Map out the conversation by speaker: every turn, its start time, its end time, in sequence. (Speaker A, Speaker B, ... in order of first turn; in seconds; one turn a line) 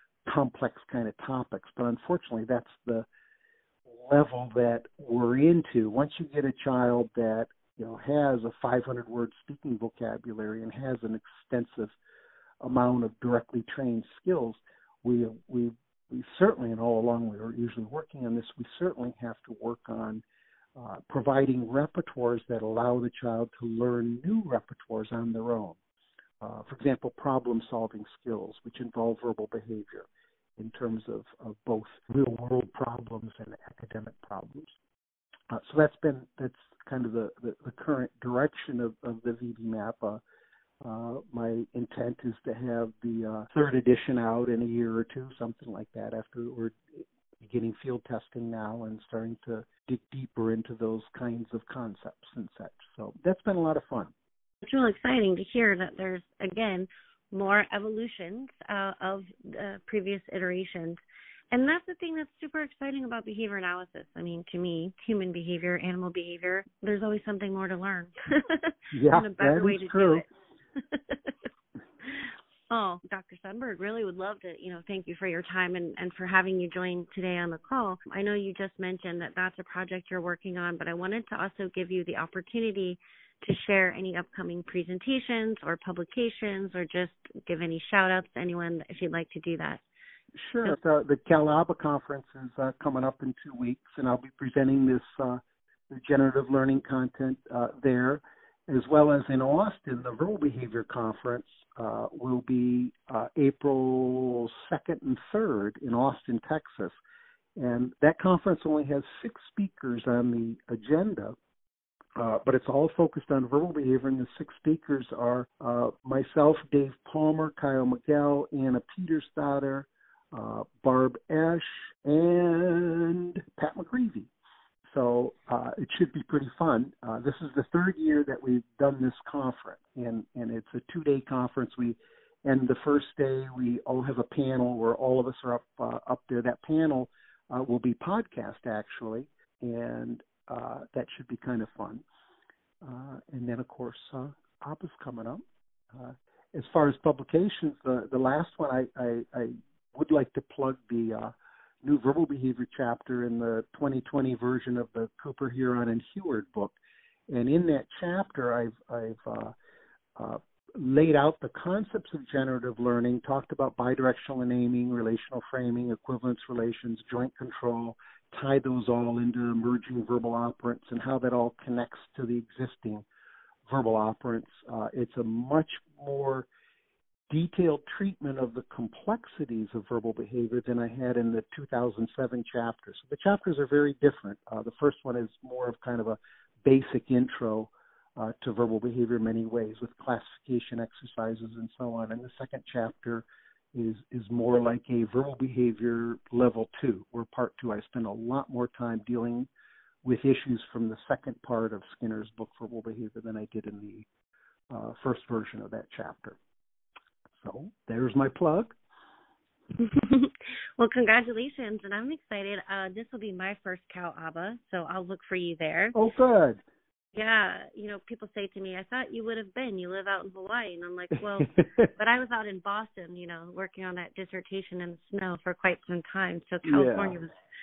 Speaker A: 0.2-3.1
Speaker A: 3.9-11.9
Speaker A: 12.6-20.2
Speaker A: 20.8-25.8
Speaker A: 26.4-34.7
Speaker A: 35.5-40.2
Speaker A: 40.8-54.1
Speaker B: 54.6-61.0
Speaker B: 61.5-71.3
Speaker A: 68.9-70.2
Speaker B: 72.0-89.8
Speaker A: 90.4-106.9
Speaker A: 107.6-111.3
Speaker A: 112.2-124.3
Speaker A: 124.8-142.0
Speaker A: 142.8-156.8
Speaker A: 157.3-159.5
Speaker A: 160.2-173.0
Speaker A: 173.7-176.5
Speaker A: 177.3-199.5
Speaker A: 200.0-204.1
Speaker A: 204.7-206.4
Speaker A: 207.4-208.7
Speaker B: 209.8-215.9
Speaker A: 215.9-216.6
Speaker B: 217.1-227.3
Speaker A: 221.4-221.9
Speaker A: 226.6-227.2